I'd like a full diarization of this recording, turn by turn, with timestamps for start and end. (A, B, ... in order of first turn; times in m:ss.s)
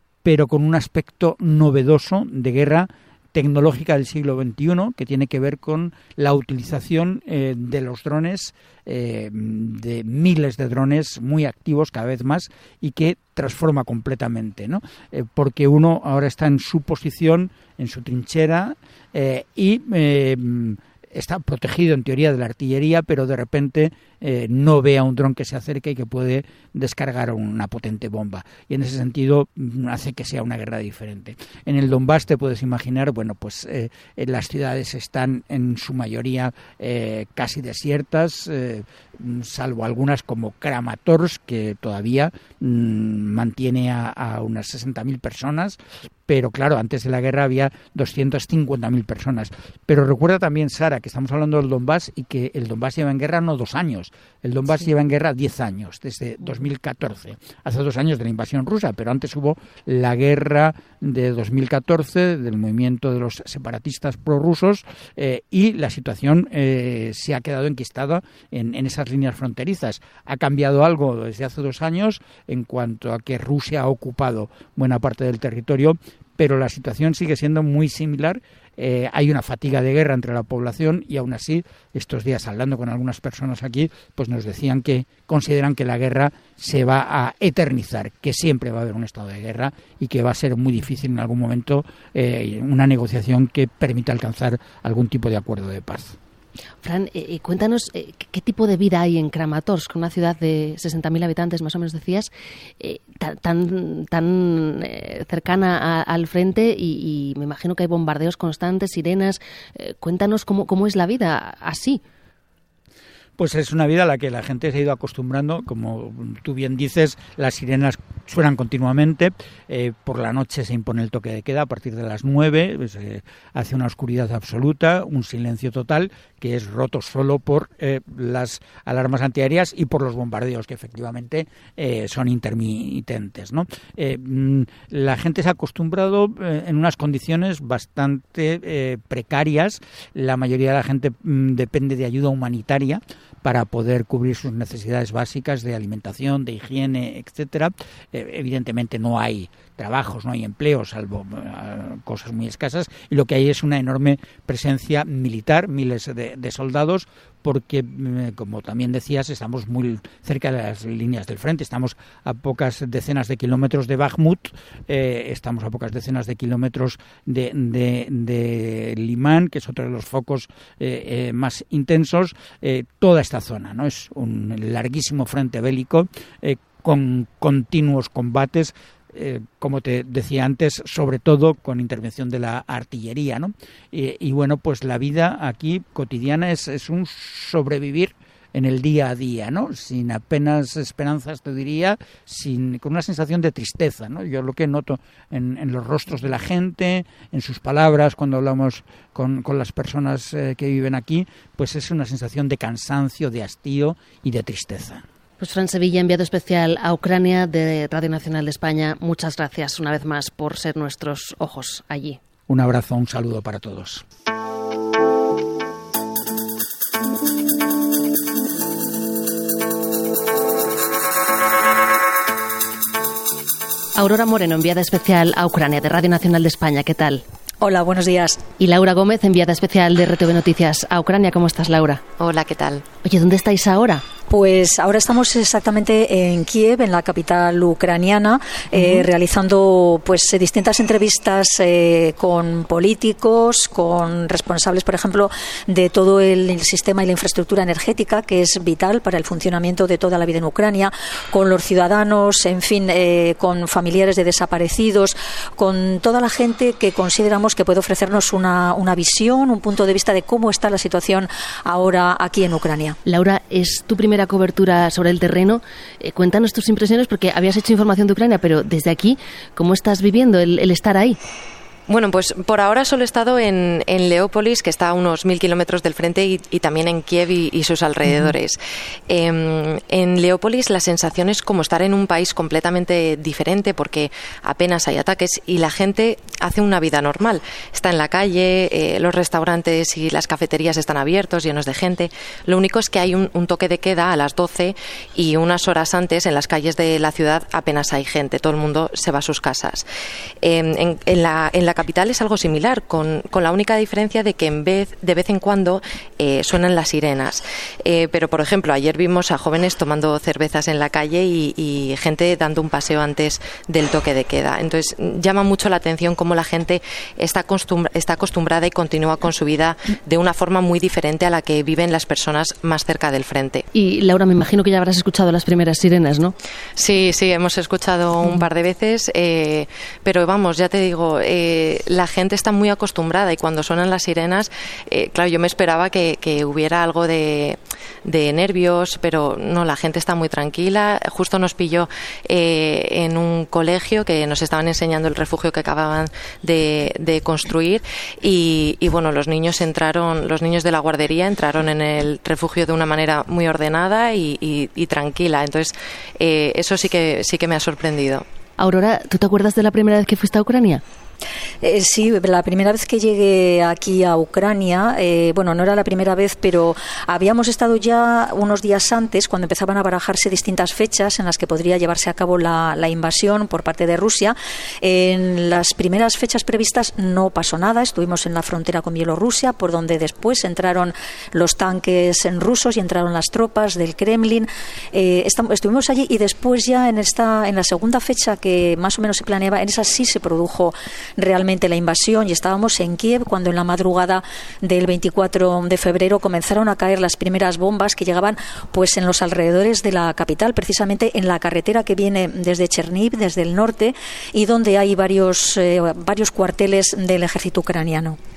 0:00.2-1:36.2 A
1:36.8-1:52.0 B
1:53.4-3:25.0 A
3:25.4-3:32.2 B
3:32.5-3:34.0 A
3:43.9-3:47.2 B
3:47.6-3:48.4 C
3:48.6-3:52.0 B
3:52.2-3:52.8 D
3:53.0-3:54.0 B
3:54.3-4:23.0 C
4:23.0-4:31.2 B
4:31.9-4:59.8 D
5:00.4-5:23.6 D
5:23.7-5:26.3 B
5:26.8-5:58.2 D
5:58.6-6:00.8 B
6:01.6-6:48.2 C